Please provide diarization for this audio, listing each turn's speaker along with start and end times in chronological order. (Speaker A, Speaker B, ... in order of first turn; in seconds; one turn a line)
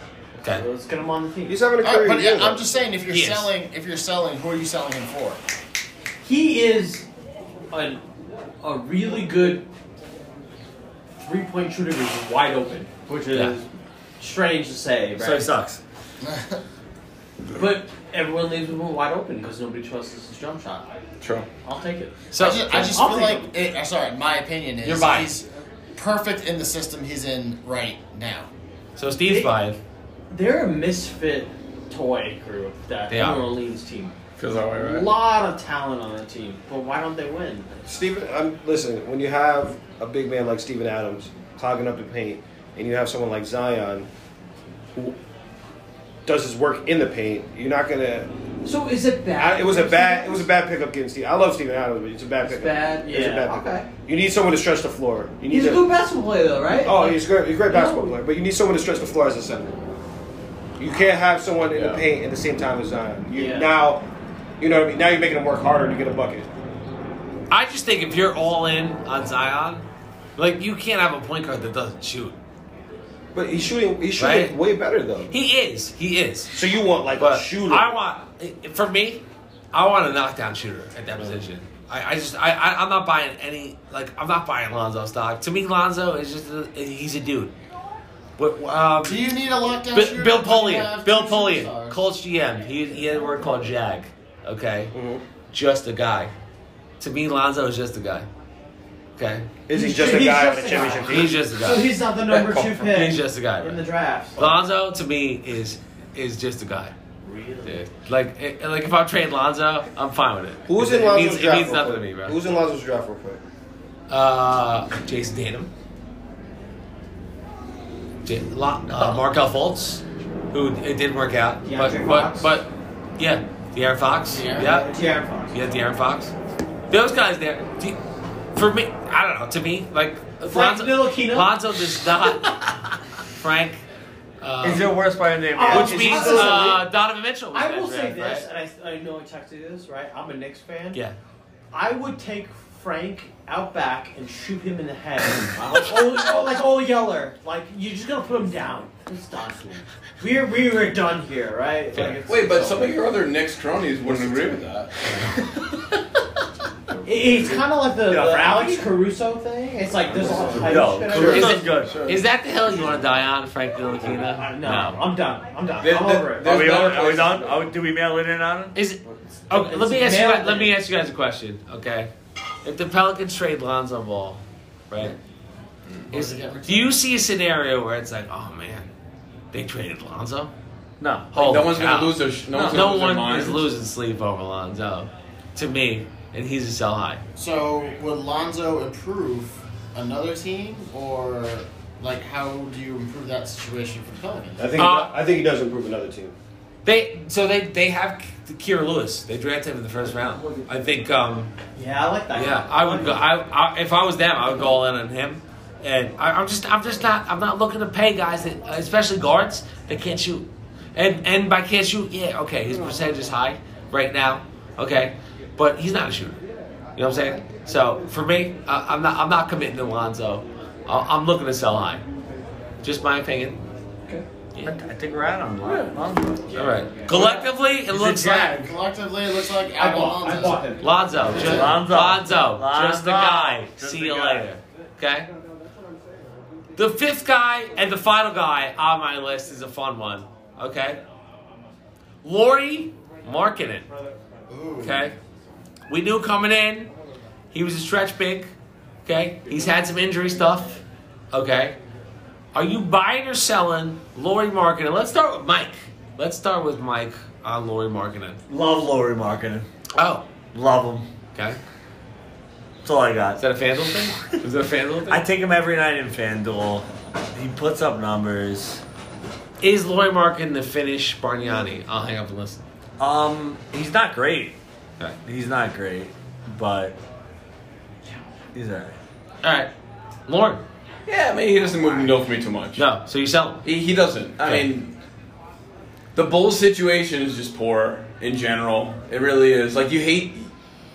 Speaker A: 0.4-1.7
Speaker B: 1.4-2.8
Speaker C: 1.8-5.4
Speaker D: 3.1-3.5
Speaker A: 6.2-7.1
Speaker A: 7.7-8.0
Speaker A: 8.6-9.7
Speaker A: 11.2-13.7
Speaker A: 14.2-15.5
Speaker E: 15.2-15.8
Speaker C: 16.2-16.6
Speaker A: 17.5-20.9
Speaker F: 21.2-21.5
Speaker A: 21.6-23.5
Speaker D: 22.3-22.9
Speaker C: 22.4-28.5
Speaker D: 24.8-25.3
Speaker D: 29.0-29.8
Speaker A: 29.2-29.7
Speaker A: 30.3-34.1
Speaker D: 33.1-33.5
Speaker F: 34.4-35.1
Speaker A: 34.7-37.8
Speaker B: 37.9-44.1
Speaker B: 46.2-48.3
Speaker A: 48.6-50.5
Speaker B: 49.4-55.9
Speaker A: 52.4-53.9
Speaker A: 55.5-58.1
Speaker B: 56.8-59.7
Speaker B: 60.8-64.0
Speaker F: 61.7-62.0
Speaker A: 63.3-63.7
Speaker B: 64.6-66.5
Speaker D: 67.5-69.8
Speaker D: 70.4-72.4
Speaker B: 73.3-75.3
Speaker D: 74.2-74.5
Speaker D: 75.3-76.5
Speaker B: 76.5-77.9
Speaker D: 77.2-87.5
Speaker D: 88.4-89.2
Speaker C: 89.0-92.0
Speaker D: 89.9-94.9
Speaker B: 94.9-95.2
Speaker D: 95.5-96.3
Speaker D: 97.0-98.3
Speaker D: 99.2-99.5
Speaker B: 99.7-101.5
Speaker A: 99.7-104.5
Speaker D: 101.0-102.0
Speaker F: 102.3-102.8
Speaker D: 102.8-103.8
Speaker D: 104.3-106.9
Speaker A: 107.2-107.8
Speaker D: 107.6-112.4
Speaker B: 110.7-113.4
Speaker D: 114.1-115.7
Speaker D: 118.2-126.3
Speaker A: 121.6-122.6
Speaker A: 124.3-125.6
Speaker D: 126.9-128.0
Speaker D: 128.5-132.5
Speaker A: 130.4-131.6
Speaker D: 133.3-133.8
Speaker D: 134.4-135.0
Speaker E: 134.6-136.8
Speaker A: 135.5-136.8
Speaker D: 135.6-138.4
Speaker A: 137.5-141.0
Speaker A: 141.7-153.0
Speaker F: 145.5-146.0
Speaker D: 151.9-152.2
Speaker F: 152.2-154.9
Speaker A: 157.1-161.8
Speaker E: 158.1-158.8
Speaker F: 160.0-160.9
Speaker E: 160.5-162.0
Speaker D: 161.1-165.0
Speaker F: 161.6-162.2
Speaker A: 164.3-166.6
Speaker F: 165.8-167.6
Speaker E: 166.4-168.7
Speaker D: 168.7-172.1
Speaker A: 169.5-170.8
Speaker D: 172.6-175.1
Speaker C: 176.1-176.9
Speaker D: 176.1-178.9
Speaker D: 179.5-180.5
Speaker E: 181.0-181.3
Speaker D: 181.3-187.2
Speaker F: 181.3-183.7
Speaker C: 187.3-194.7
Speaker B: 194.6-196.3
Speaker D: 194.8-195.1
Speaker D: 196.8-201.5
Speaker A: 201.8-203.2
Speaker D: 202.3-216.4
Speaker D: 217.0-222.0
Speaker D: 222.8-223.6
Speaker E: 224.6-227.3
Speaker D: 226.6-228.6
Speaker E: 227.9-228.7
Speaker C: 228.4-230.7
Speaker A: 229.8-231.8
Speaker D: 230.8-235.3
Speaker E: 231.4-234.5
Speaker D: 236.8-241.0
Speaker D: 242.2-243.9
Speaker C: 244.5-245.1
Speaker D: 244.8-245.2
Speaker D: 245.9-246.9
Speaker D: 247.5-248.5
Speaker D: 249.1-250.8
Speaker D: 251.3-251.8
Speaker D: 252.5-258.4
Speaker E: 258.5-259.7
Speaker D: 259.9-260.3
Speaker E: 260.5-261.1
Speaker E: 262.8-263.4
Speaker D: 263.4-265.2
Speaker E: 264.0-264.3
Speaker E: 265.1-268.8
Speaker D: 269.6-272.6
Speaker E: 273.0-274.6
Speaker E: 275.2-277.0
Speaker E: 278.5-278.9
Speaker D: 279.4-279.7
Speaker D: 280.3-280.6
Speaker F: 281.1-282.8
Speaker D: 282.8-283.6
Speaker F: 283.6-284.9
Speaker D: 284.4-284.7
Speaker F: 286.1-290.5